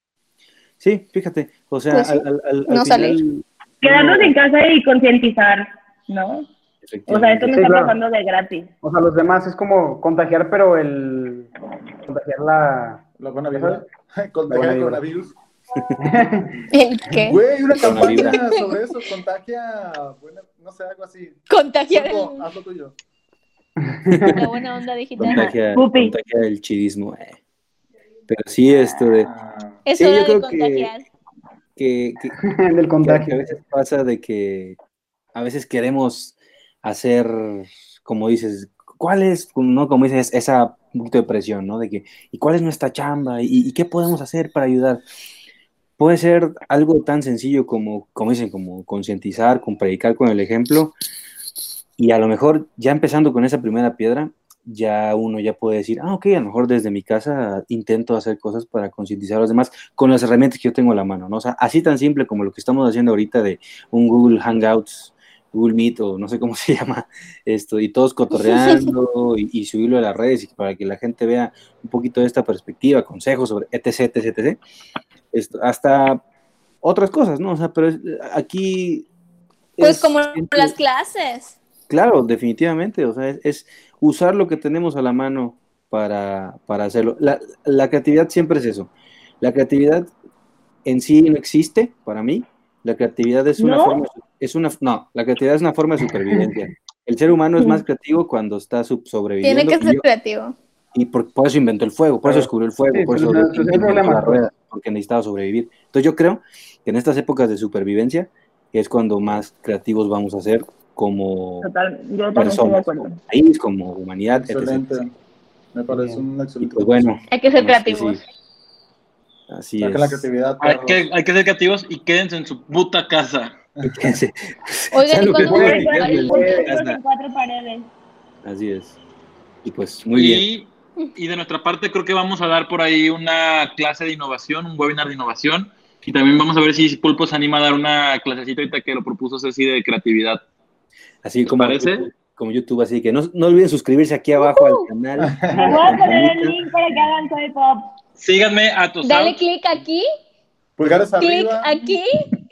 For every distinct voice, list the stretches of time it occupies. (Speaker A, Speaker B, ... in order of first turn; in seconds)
Speaker A: 0.8-4.3, 6.8-7.5, 17.8-18.4, 24.1-24.3, 25.2-27.4, 28.3-29.3, 30.0-30.9, 31.8-32.3, 33.0-34.8, 35.3-45.0, 46.0-50.9, 52.0-74.6, 75.3-76.2, 76.8-79.1, 79.8-80.7, 81.9-88.9, 89.4-90.1, 90.8-100.0, 100.9-111.7, 112.3-114.8, 116.6-118.2, 119.5-120.2, 123.8-127.0, 128.4-129.0, 129.6-130.4, 141.2-146.6
Speaker B: 1.9-3.2, 16.7-17.4, 18.0-18.7, 21.5-22.4, 24.3-25.5, 29.9-31.0, 79.8-81.5, 99.4-100.5, 117.3-118.2, 124.9-126.5, 144.4-144.8, 149.0-150.0, 151.2-152.2
Speaker C: 3.8-6.5, 7.1-8.7, 25.2-26.1, 93.6-94.0, 111.6-113.2, 125.5-127.9, 145.6-147.9
Speaker D: 7.5-8.0, 8.8-11.5, 12.1-13.8, 14.5-15.0, 16.0-16.6, 23.8-24.4, 32.4-33.5, 102.2-104.5, 115.9-116.2, 125.4-126.7
Speaker E: 13.2-15.4, 17.2-22.9, 29.2-29.8, 114.4-115.1, 115.7-117.0, 119.8-121.0, 123.8-124.1, 145.2-145.7, 150.8-151.9
Speaker F: 120.6-123.5, 130.1-140.4, 141.4-142.1, 148.2-149.4